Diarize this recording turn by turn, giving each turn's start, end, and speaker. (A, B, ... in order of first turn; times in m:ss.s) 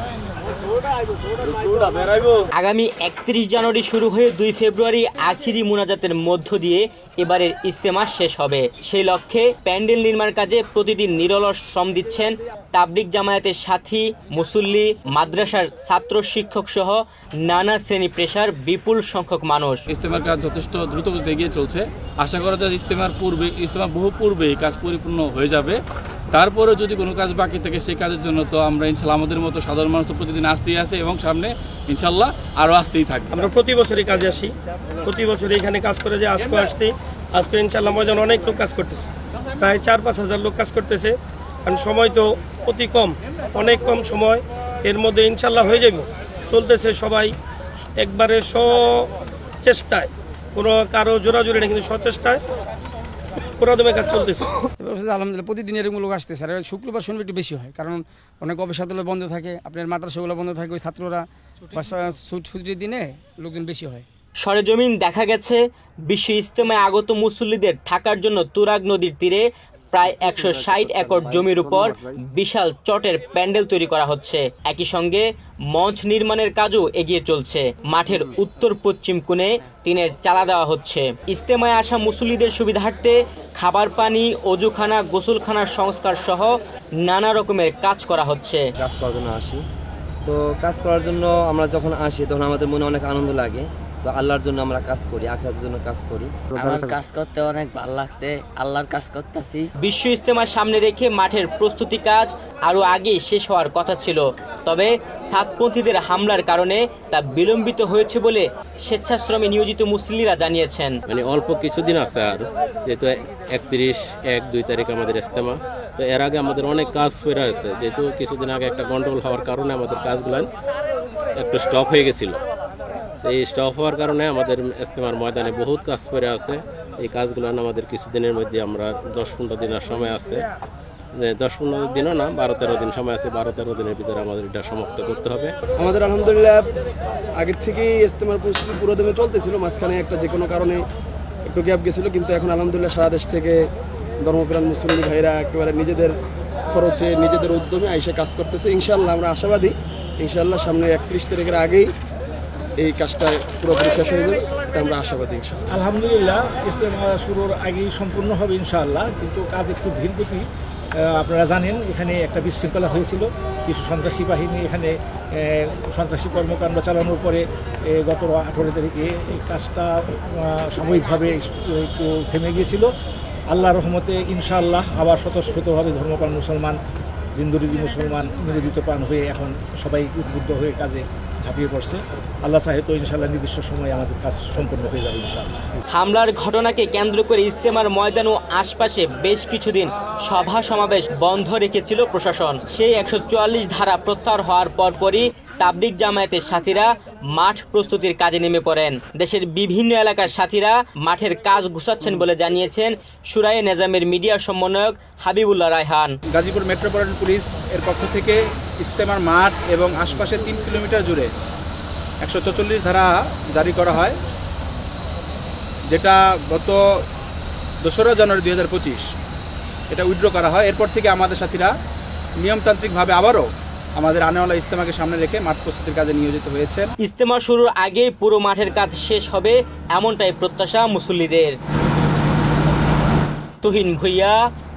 0:01.6-0:02.3 A
0:02.6-0:19.8 B
0:19.9-0:25.8 A
0:20.0-0:21.8 C
0:22.3-0:25.5 C
0:26.3-0:33.2 A
0:26.4-0:28.5 C
0:29.0-0:29.8 C
0:30.4-0:31.0 C
0:32.0-0:33.2 C
0:33.3-0:34.5 D
0:35.1-0:39.1 D
0:39.6-0:47.4 D
0:48.0-0:49.1 D
0:49.6-0:52.4 D
0:53.6-0:54.5 D
0:54.8-1:04.0 E
1:04.4-1:26.5 B
1:27.0-1:28.6 B
1:28.8-1:29.6 F
1:30.3-1:36.4 F
1:36.6-1:39.7 G
1:39.8-1:51.0 B
1:51.1-2:00.5 H
2:01.4-2:02.4 H
2:03.2-2:10.4 H
2:11.2-2:15.5 H
2:15.8-2:16.7 I
2:17.4-2:20.8 I
2:21.5-2:23.6 I
2:24.2-2:26.1 I
2:26.7-2:31.9 I
2:32.8-2:35.6 I
2:35.7-2:40.5 J
2:41.1-2:52.9 J
2:53.5-2:56.8 J
2:57.4-3:05.6 J
3:05.9-3:26.1 B
3:26.3-3:31.3 C
3:32.2-3:34.2 C
3:35.9-3:36.8 C
3:37.8-3:39.1 C
3:39.9-3:41.7 C
3:42.4-3:46.9 C
3:47.0-3:51.6 B
3:53.6-3:54.4 B